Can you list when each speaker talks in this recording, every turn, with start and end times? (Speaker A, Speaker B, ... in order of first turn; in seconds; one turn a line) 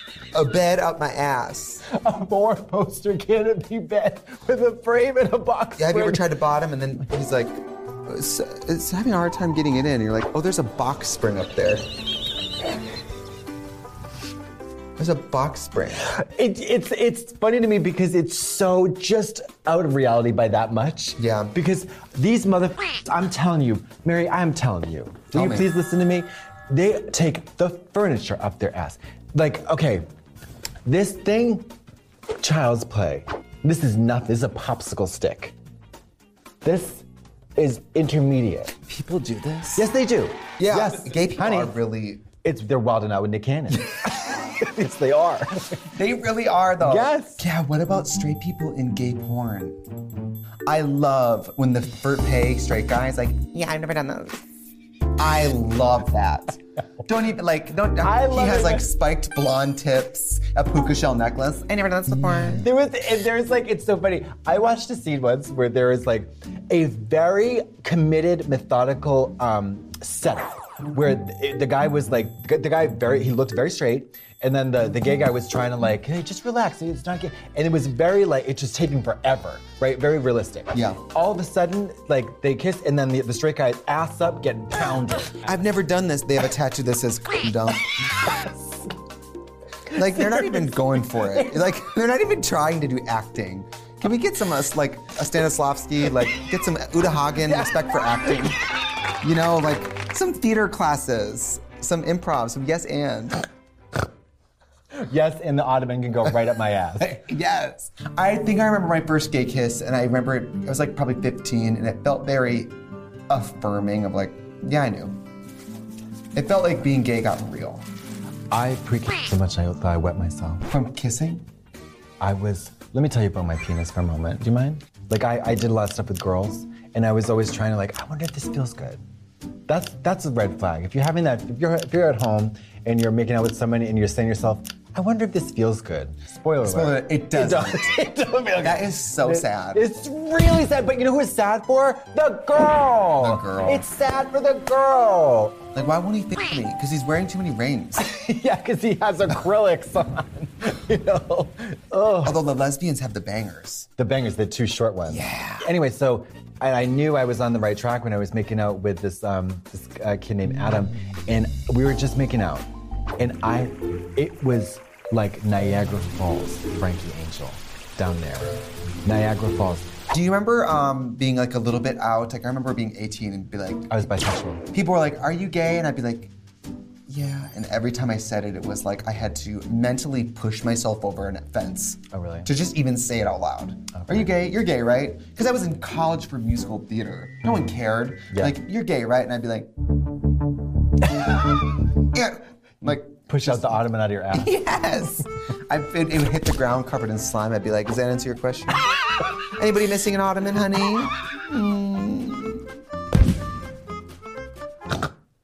Speaker A: 0.3-1.8
Speaker B: 1.9-6.3
Speaker A: 5.8-11.9
Speaker A: 15.0-16.1
Speaker B: 16.0-30.0
Speaker A: 21.2-21.6
Speaker A: 25.3-25.7
Speaker B: 30.9-31.7
Speaker B: 32.4-35.5
Speaker B: 36.6-38.7
Speaker A: 38.9-39.9
Speaker B: 39.8-41.8
Speaker A: 40.6-42.2
Speaker B: 42.3-46.0
Speaker A: 43.7-44.0
Speaker A: 45.9-49.8
Speaker B: 46.8-47.4
Speaker A: 50.7-54.4
Speaker A: 55.2-62.7
Speaker B: 58.0-58.9
Speaker B: 62.3-85.6
Speaker A: 80.7-81.0
Speaker A: 85.4-87.9
Speaker A: 89.9-98.6
Speaker B: 90.2-90.6
Speaker B: 91.3-91.6
Speaker A: 99.2-103.4
Speaker B: 105.0-107.2
Speaker A: 107.0-112.8
Speaker A: 113.3-115.2
Speaker A: 116.3-117.9
Speaker B: 118.5-120.7
Speaker A: 120.7-121.5
Speaker B: 122.2-129.0
Speaker B: 129.7-145.6
Speaker A: 136.7-138.0
Speaker A: 138.6-139.9
Speaker A: 143.2-143.9
Speaker A: 145.8-148.0
Speaker B: 148.0-152.4
Speaker A: 152.2-153.9
Speaker B: 154.0-162.7
Speaker A: 155.1-155.7
Speaker B: 163.2-169.9
Speaker A: 170.1-174.1
Speaker B: 173.9-174.7
Speaker A: 174.7-176.3
Speaker A: 177.1-189.7
Speaker B: 182.1-182.5
Speaker B: 188.3-188.6
Speaker A: 192.1-198.8
Speaker B: 193.1-194.6
Speaker A: 199.6-202.6